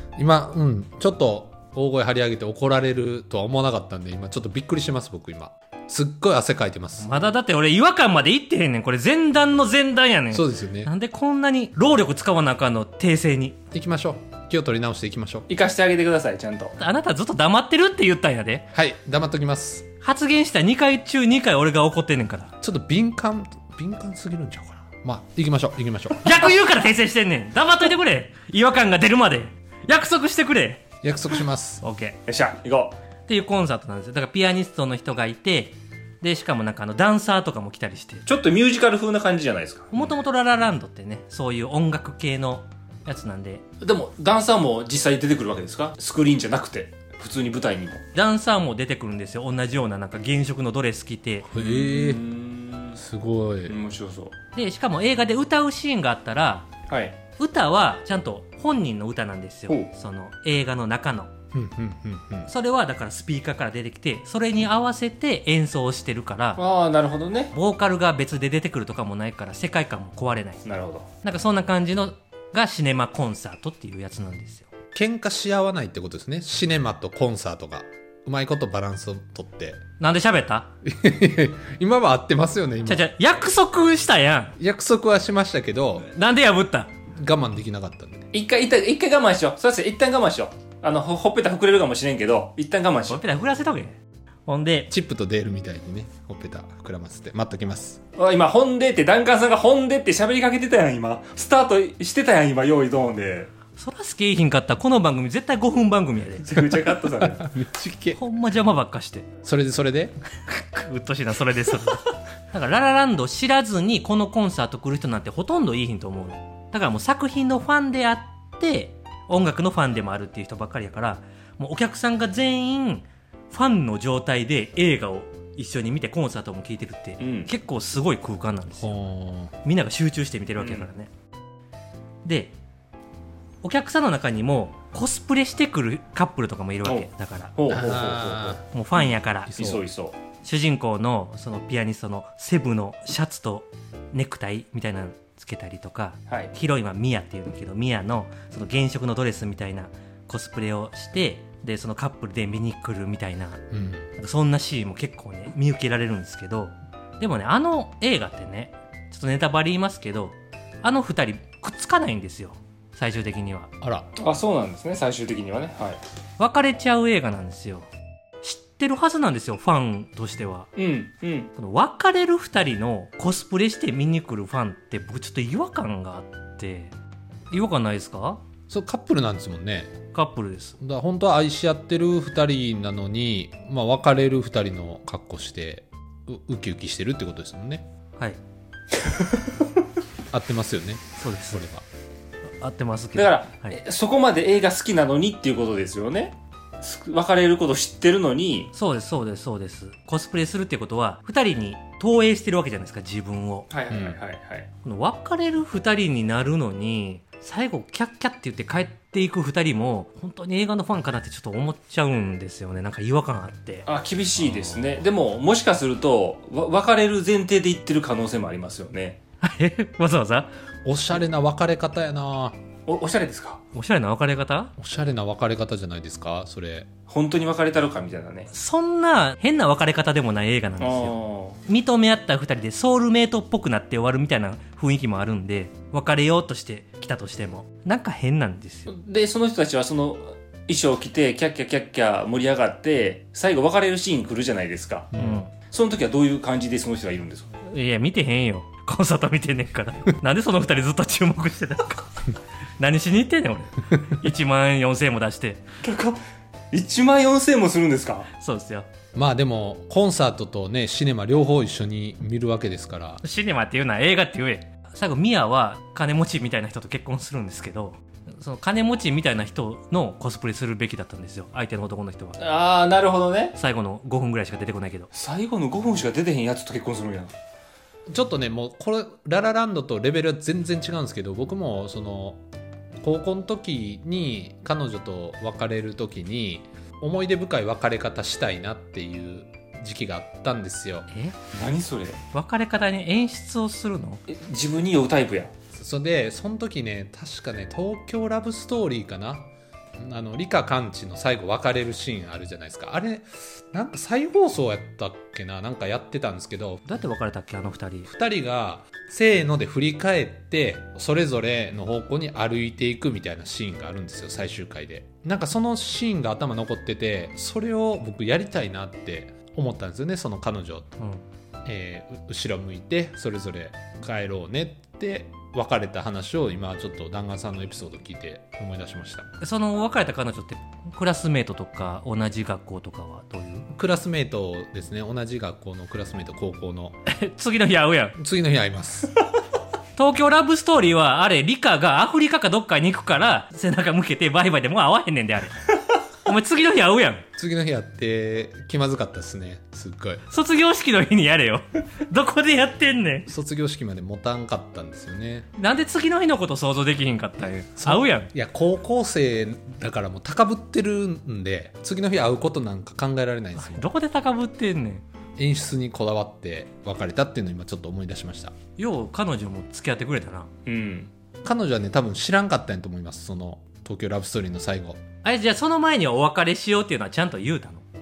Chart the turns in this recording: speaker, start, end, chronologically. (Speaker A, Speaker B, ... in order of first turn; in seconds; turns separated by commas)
Speaker A: 0.2-7.1, Speaker B: 7.0-13.6, Speaker A: 10.3-10.9, Speaker A: 13.7-15.5, Speaker C: 15.5-16.8, Speaker B: 16.8-18.7, Speaker A: 18.7-19.9, Speaker B: 20.0-22.5, Speaker A: 22.6-26.5, Speaker B: 26.2-30.8, Speaker A: 31.0-31.8, Speaker B: 31.8-32.2, Speaker C: 32.3-33.0, Speaker B: 33.3-38.2, Speaker C: 38.3-40.1, Speaker B: 39.9-43.6, Speaker C: 43.8-48.0, Speaker B: 48.1-51.5, Speaker A: 51.5-52.2, Speaker C: 51.5-53.0, Speaker A: 53.0-53.8, Speaker C: 53.7-54.3, Speaker B: 54.5-56.7, Speaker C: 56.9-57.2, Speaker B: 57.4-61.3, Speaker A: 61.5-62.5, Speaker B: 62.5-66.6, Speaker C: 66.6-67.5, Speaker B: 67.5-70.6, Speaker C: 70.6-71.1, Speaker B: 71.2-74.7, Speaker A: 75.0-79.8, Speaker B: 80.0-80.7, Speaker A: 80.8-83.1, Speaker B: 82.8-84.6, Speaker A: 84.6-86.1, Speaker B: 86.0-86.9, Speaker A: 87.2-88.3, Speaker C: 88.3-93.2, Speaker B: 93.1-94.9, Speaker A: 94.9-98.0, Speaker C: 98.2-103.5, Speaker B: 103.8-106.5, Speaker C: 106.4-107.5, Speaker A: 106.8-108.2, Speaker B: 108.1-109.3, Speaker A: 109.4-110.1, Speaker B: 110.5-129.0, Speaker C: 127.2-127.5, Speaker A: 128.8-129.5, Speaker B: 129.6-131.1, Speaker C: 130.6-130.9, Speaker B: 132.2-132.6, Speaker B: 133.6-137.6, Speaker C: 136.8-140.2, Speaker A: 137.7-138.6, Speaker B: 138.7-139.7, Speaker A: 139.5-139.8, Speaker B: 140.4-153.6, Speaker A: 153.7-154.1, Speaker B: 154.2-163.7, Speaker A: 163.8-164.1, Speaker C: 164.2-166.0, Speaker B: 166.4-167.9, Speaker B: 168.4-170.7, Speaker C: 170.8-171.5, Speaker B: 171.6-176.9, Speaker B: 177.5-178.4, Speaker A: 178.7-179.9, Speaker B: 180.1-180.8, Speaker A: 180.8-187.8, Speaker A: 190.3-191.8, Speaker B: 191.2-191.6, Speaker B: 192.6-193.8, Speaker C: 193.2-198.7, Speaker B: 198.7-203.7, Speaker C: 203.7-204.7, Speaker A: 203.9-204.2, Speaker B: 204.8-213.9, Speaker C: 213.9-219.2, Speaker B: 219.4-220.5, Speaker A: 220.8-222.6, Speaker C: 222.9-223.6, Speaker B: 223.7-224.7, Speaker A: 224.8-226.9, Speaker C: 227.1-228.5, Speaker B: 228.5-231.1, Speaker C: 230.8-231.6, Speaker B: 231.7-238.9, Speaker C: 238.9-245.1, Speaker A: 245.1-245.4, Speaker B: 245.1-245.5, Speaker C: 245.7-247.5, Speaker B: 247.6-252.1, Speaker B: 252.8-255.6, Speaker C: 255.8-256.2, Speaker C: 256.7-258.3, Speaker B: 258.3-258.9, Speaker A: 259.1-263.2, Speaker B: 263.2-272.4, Speaker C: 272.4-273.6, Speaker B: 273.6-275.1, Speaker C: 275.1-277.3, Speaker A: 278.1-282.4, Speaker A: 283.0-291.1, Speaker B: 291.1-291.4, Speaker C: 291.5-292.2, Speaker B: 292.3-294.2, Speaker C: 294.3-295.5, Speaker A: 295.7-306.8, Speaker B: 306.9-308.1, Speaker A: 308.1-320.9, Speaker B: 321.0-321.2, Speaker A: 321.6-329.3, Speaker B: 329.4-333.7, Speaker A: 333.7-337.0, Speaker B: 337.1-338.2, Speaker A: 338.2-339.1, Speaker B: 339.9-345.6, Speaker B: 346.2-347.2, Speaker A: 347.4-350.2, Speaker B: 350.3-353.3, Speaker A: 353.3-355.5, Speaker B: 355.6-358.3, Speaker A: 357.8-363.9, Speaker B: 363.6-365.0, Speaker A: 365.4-368.6, Speaker B: 368.8-370.5, Speaker C: 370.7-371.1, Speaker A: 371.4-375.0, Speaker B: 375.2-377.8